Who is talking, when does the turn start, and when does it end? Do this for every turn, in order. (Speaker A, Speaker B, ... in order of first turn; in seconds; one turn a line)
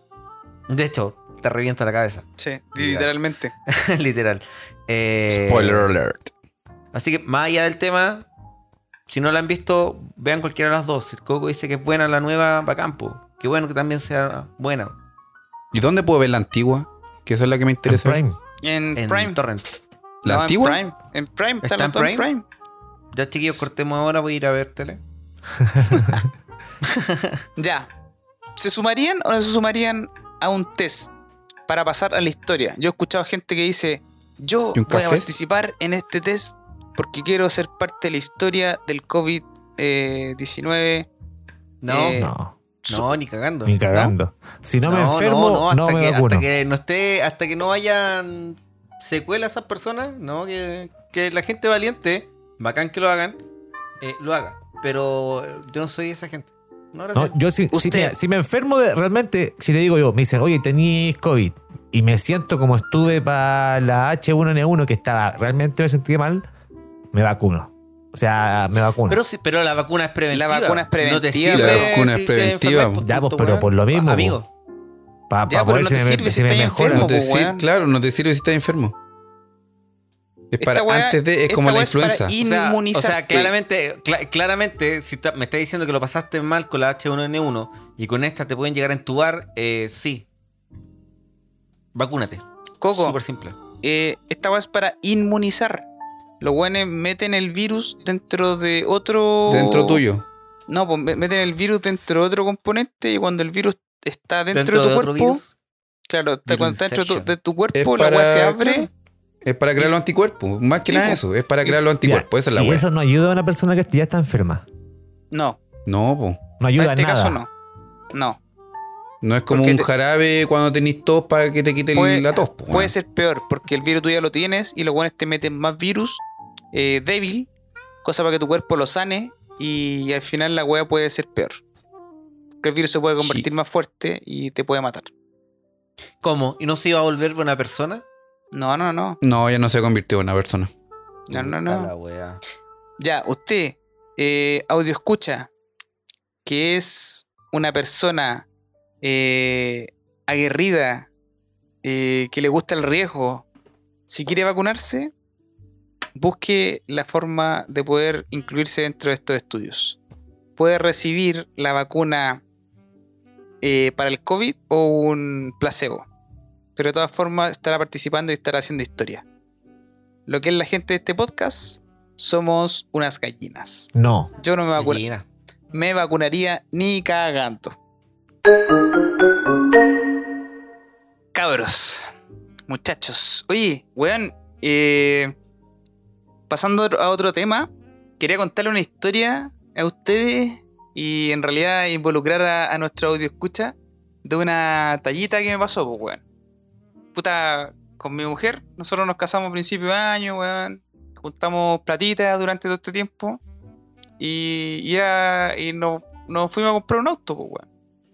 Speaker A: 0.7-3.1
Speaker B: 2.4-3.5
Speaker A: 3.7-5.9
Speaker C: 5.3-6.3
Speaker A: 6.9-8.3
Speaker A: 9.1-14.9
Speaker C: 15.7-18.2
Speaker D: 17.9-18.4
Speaker B: 18.6-19.4
Speaker A: 18.9-19.8
Speaker C: 20.2-20.8
Speaker B: 20.2-22.4
Speaker A: 21.6-22.3
Speaker A: 23.1-25.0
Speaker D: 25.6-25.9
Speaker A: 26.9-27.4
Speaker B: 27.6-27.9
Speaker B: 28.6-31.1
Speaker B: 31.7-41.1
Speaker C: 34.7-35.4
Speaker A: 41.8-42.2
Speaker B: 41.9-42.3
Speaker D: 42.1-42.5
Speaker B: 42.8-43.1
Speaker A: 42.9-44.0
Speaker D: 43.6-46.5
Speaker A: 44.8-53.4
Speaker A: 54.0-57.3
Speaker D: 57.1-66.4
Speaker B: 57.7-58.1
Speaker D: 67.1-69.2
Speaker A: 69.1-74.5
Speaker B: 70.3-72.1
Speaker C: 71.5-73.0
Speaker D: 73.0-74.4
Speaker D: 75.3-77.1
Speaker B: 75.5-77.6
Speaker C: 76.9-78.9
Speaker C: 80.5-82.3
Speaker B: 80.6-83.5
Speaker A: 82.4-90.3
Speaker A: 91.9-93.6
Speaker B: 92.8-93.2
Speaker B: 93.8-95.8
Speaker B: 96.4-100.0
Speaker C: 99.5-100.2
Speaker B: 100.7-105.4
Speaker A: 104.5-105.5
Speaker B: 106.1-108.9
Speaker A: 106.5-107.3
Speaker C: 107.7-108.9
Speaker C: 109.4-112.9
Speaker B: 110.8-111.8
Speaker D: 112.0-114.7
Speaker B: 115.3-115.6
Speaker C: 115.8-116.4
Speaker D: 116.6-117.4
Speaker B: 116.8-117.5
Speaker B: 118.1-118.4
Speaker C: 119.2-122.8
Speaker B: 119.5-119.9
Speaker B: 121.9-126.2
Speaker A: 122.4-122.9
Speaker B: 126.7-127.5
Speaker B: 128.0-131.6
Speaker B: 132.6-135.1
Speaker C: 133.2-133.5
Speaker A: 136.2-138.0
Speaker B: 138.5-139.2
Speaker C: 139.2-140.7
Speaker B: 141.3-141.9
Speaker A: 141.3-142.4
Speaker B: 143.0-145.5
Speaker B: 146.4-148.4
Speaker B: 149.0-151.1
Speaker B: 151.8-153.4
Speaker B: 154.1-155.1
Speaker B: 156.2-160.0
Speaker B: 160.6-162.4
Speaker B: 163.6-166.1
Speaker B: 166.8-169.2
Speaker B: 170.3-175.0
Speaker D: 173.9-174.3
Speaker A: 174.8-175.2
Speaker B: 175.7-177.7
Speaker B: 181.3-182.1
Speaker B: 182.7-185.3
Speaker B: 186.5-196.2
Speaker B: 197.1-203.4
Speaker B: 204.2-207.7